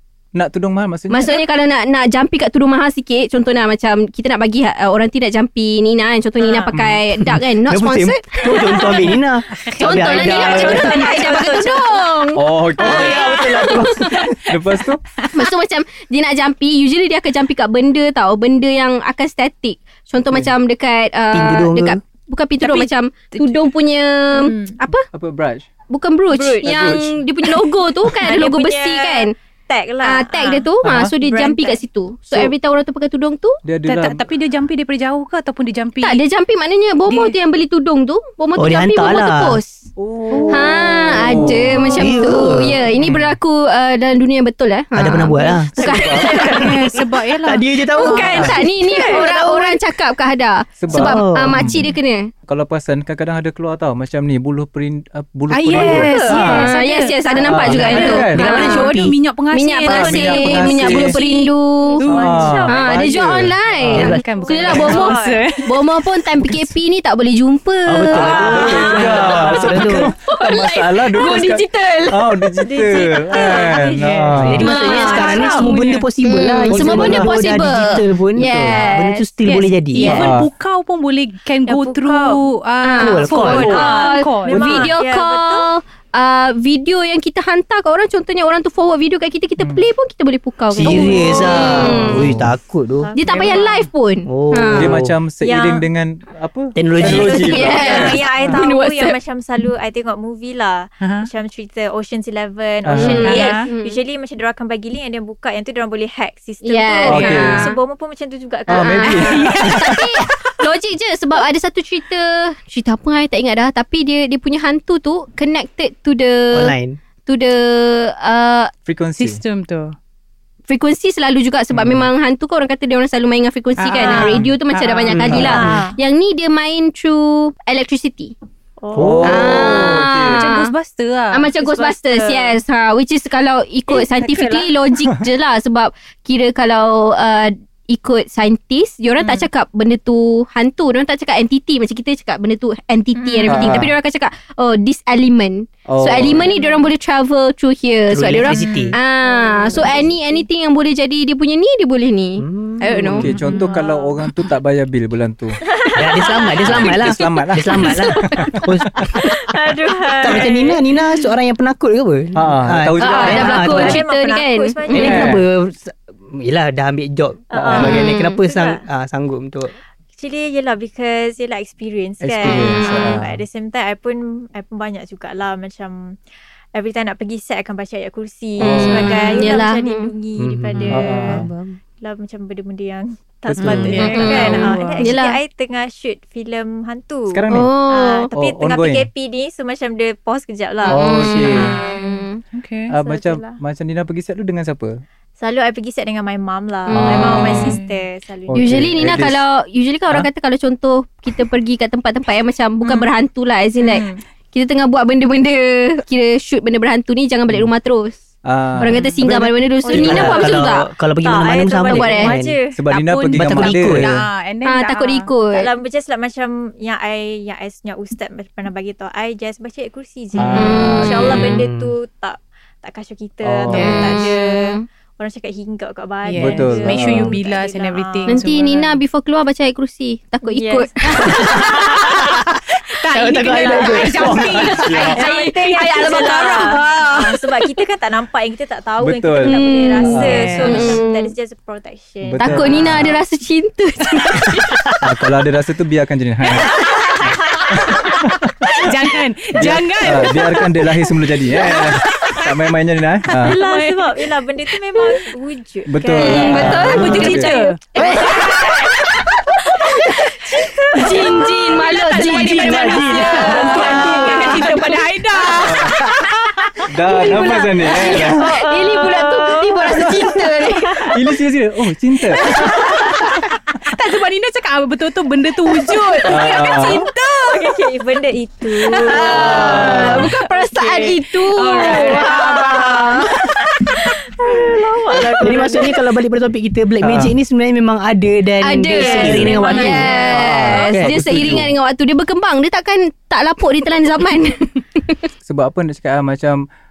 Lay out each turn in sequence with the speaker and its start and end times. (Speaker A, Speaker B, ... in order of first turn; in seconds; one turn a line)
Speaker A: 0.3-1.4
Speaker B: 1.1-9.0
Speaker C: 6.4-6.7
Speaker A: 6.7-7.0
Speaker D: 7.2-11.0
Speaker E: 9.5-11.2
Speaker B: 9.8-14.3
Speaker C: 10.2-12.1
Speaker A: 12.3-13.3
Speaker D: 12.9-14.4
Speaker E: 12.9-14.6
Speaker C: 13.0-13.3
Speaker A: 14.5-15.0
Speaker E: 15.2-15.5
Speaker B: 15.3-25.1
Speaker D: 21.3-22.0
Speaker E: 22.6-23.6
Speaker E: 24.4-24.7
Speaker C: 24.4-24.7
Speaker A: 25.1-25.7
Speaker B: 25.9-29.3
Speaker C: 26.3-27.0
Speaker A: 26.6-27.2
Speaker C: 28.2-30.7
Speaker B: 30.0-33.6
Speaker A: 30.8-31.1
Speaker C: 31.2-31.8
Speaker A: 33.6-34.2
Speaker E: 33.9-36.2
Speaker B: 36.0-39.9
Speaker E: 37.1-37.4
Speaker D: 38.6-39.6
Speaker A: 40.0-42.0
Speaker B: 40.5-46.9
Speaker D: 41.3-42.8
Speaker A: 43.0-43.4
Speaker D: 45.0-45.8
Speaker A: 45.8-46.4
Speaker C: 45.8-46.7
Speaker E: 46.5-48.4
Speaker D: 47.4-49.8
Speaker B: 47.9-52.3
Speaker C: 48.0-48.3
Speaker A: 48.3-48.6
Speaker C: 48.8-49.3
Speaker A: 50.8-51.9
Speaker D: 50.9-51.7
Speaker A: 52.5-56.7
Speaker E: 55.5-62.6
Speaker B: 55.8-62.0
Speaker C: 55.9-56.5
Speaker C: 57.3-58.2
Speaker A: 57.4-58.4
Speaker D: 57.7-59.2
Speaker A: 59.9-61.2
Speaker C: 61.2-63.2
Speaker A: 62.1-64.1
Speaker B: 62.7-72.5
Speaker E: 63.9-65.8
Speaker D: 63.9-64.2
Speaker C: 64.2-65.6
Speaker D: 67.9-70.1
Speaker A: 68.1-74.7
Speaker C: 68.6-69.0
Speaker E: 69.1-69.7
Speaker C: 72.6-76.0
Speaker E: 74.0-76.1
Speaker D: 74.4-80.3
Speaker B: 74.6-79.3
Speaker A: 76.7-77.6
Speaker C: 78.7-79.0
Speaker E: 79.5-84.9
Speaker A: 80.0-80.5
Speaker C: 81.7-82.4
Speaker B: 82.8-92.3
Speaker D: 83.0-83.8
Speaker C: 83.3-85.7
Speaker A: 89.6-89.8
Speaker D: 90.7-93.1
Speaker A: 90.9-92.5
Speaker C: 93.0-93.9
Speaker B: 93.2-95.0
Speaker D: 94.3-95.1
Speaker A: 94.8-98.6
Speaker C: 95.4-95.9
Speaker D: 96.8-97.8
Speaker C: 97.0-109.8
Speaker B: 97.4-99.2
Speaker E: 101.0-101.3
Speaker A: 102.8-103.4
Speaker B: 103.0-104.0
Speaker E: 103.2-103.7
Speaker B: 106.6-107.7
Speaker A: 107.1-107.7
Speaker A: 108.7-110.2
Speaker B: 108.7-116.8
Speaker E: 109.4-110.0
Speaker D: 116.5-117.0
Speaker B: 117.3-118.7
Speaker A: 118.9-119.4
Speaker E: 119.2-120.0
Speaker B: 120.7-128.3
Speaker A: 121.7-122.1
Speaker E: 123.8-125.5
Speaker C: 124.0-124.4
Speaker A: 124.2-124.5
Speaker A: 125.1-125.7
Speaker C: 125.3-126.0
Speaker C: 128.8-129.7
Speaker A: 128.9-130.5
Speaker D: 129.0-129.3
Speaker B: 129.2-130.7
Speaker E: 129.8-131.5
Speaker B: 131.3-153.3
Speaker C: 131.6-132.6
Speaker C: 133.9-134.7
Speaker C: 139.2-139.4
Speaker C: 143.2-143.8
Speaker A: 143.5-144.0
Speaker A: 145.9-146.5
Speaker C: 146.3-146.9
Speaker D: 148.1-149.0
Speaker C: 148.5-150.4
Speaker D: 152.4-153.4
Speaker A: 153.1-155.6
Speaker C: 153.4-154.2
Speaker C: 155.6-156.9
Speaker D: 155.9-159.5
Speaker A: 156.7-159.1
Speaker C: 157.8-160.8
Speaker D: 160.2-164.0
Speaker A: 162.3-164.0
Speaker B: 163.0-165.2
Speaker C: 163.0-165.4
Speaker D: 164.9-169.7
Speaker A: 165.0-165.4
Speaker C: 167.5-168.8
Speaker A: 167.6-168.1
Speaker B: 167.8-168.4
Speaker C: 170.2-176.2
Speaker A: 172.2-173.4
Speaker B: 172.4-173.2
Speaker C: 176.7-181.5
Speaker A: 178.6-179.2
Speaker B: 178.6-180.1
Speaker D: 180.4-181.8
Speaker A: 180.9-181.5
Speaker C: 182.0-192.3
Speaker A: 183.5-184.4
Speaker E: 183.6-185.2
Speaker B: 184.0-185.4
Speaker A: 187.3-187.7
Speaker B: 187.5-188.3
Speaker A: 188.4-189.1
Speaker B: 190.9-192.4
Speaker A: 190.9-191.8
Speaker E: 192.5-192.9
Speaker A: 192.9-195.0
Speaker C: 193.0-193.6
Speaker C: 195.4-199.0
Speaker B: 196.9-197.7
Speaker A: 196.9-197.8
Speaker E: 197.5-197.9
Speaker A: 198.5-199.4
Speaker B: 198.5-208.2
Speaker C: 202.8-203.1
Speaker C: 203.8-204.2
Speaker A: 208.4-210.6
Speaker B: 208.8-210.9
Speaker C: 209.8-212.8
Speaker D: 210.0-212.6
Speaker B: 211.8-212.3
Speaker A: 212.7-214.1
Speaker E: 212.9-215.3
Speaker D: 213.3-214.3
Speaker B: 214.7-215.7
Speaker C: 215.5-228.5
Speaker A: 220.4-221.6
Speaker B: 220.6-221.4
Speaker D: 220.9-221.9
Speaker A: 223.4-224.0
Speaker B: 223.7-224.8
Speaker E: 223.8-224.1
Speaker E: 226.2-229.0
Speaker A: 226.4-227.4
Speaker B: 228.3-231.9
Speaker C: 230.4-232.1
Speaker D: 231.3-232.2
Speaker E: 232.9-236.8
Speaker D: 233.1-234.7
Speaker C: 233.5-234.0
Speaker A: 234.2-235.2
Speaker B: 234.8-237.7
Speaker C: 235.1-243.2
Speaker A: 239.0-241.0
Speaker B: 239.4-241.3
Speaker E: 240.1-240.9
Speaker A: 242.2-243.1
Speaker B: 242.4-244.8
Speaker A: 245.0-246.9
Speaker C: 246.7-248.0
Speaker E: 247.6-248.2
Speaker A: 247.8-248.6
Speaker E: 248.8-250.9
Speaker A: 249.5-253.6
Speaker E: 251.5-252.5
Speaker E: 253.4-254.2
Speaker C: 253.4-257.1
Speaker A: 255.9-257.5
Speaker B: 256.1-258.3
Speaker E: 256.3-257.8
Speaker D: 256.6-257.1
Speaker C: 257.9-264.8
Speaker D: 258.0-260.3
Speaker B: 260.9-264.9
Speaker D: 262.0-264.5
Speaker E: 262.5-265.9
Speaker A: 265.5-266.0
Speaker C: 266.8-271.2
Speaker A: 266.9-268.4
Speaker B: 267.1-271.1
Speaker A: 271.1-272.9
Speaker C: 272.3-273.3
Speaker E: 272.5-277.7
Speaker C: 276.1-276.6
Speaker A: 276.3-277.1
Speaker C: 277.4-286.0
Speaker E: 279.0-283.1
Speaker B: 279.1-283.3
Speaker A: 279.3-280.4
Speaker D: 279.8-280.3
Speaker D: 285.4-290.1
Speaker A: 287.0-287.3
Speaker B: 288.6-295.3
Speaker C: 288.9-291.2
Speaker A: 290.3-291.8
Speaker D: 290.9-291.1
Speaker A: 295.4-296.6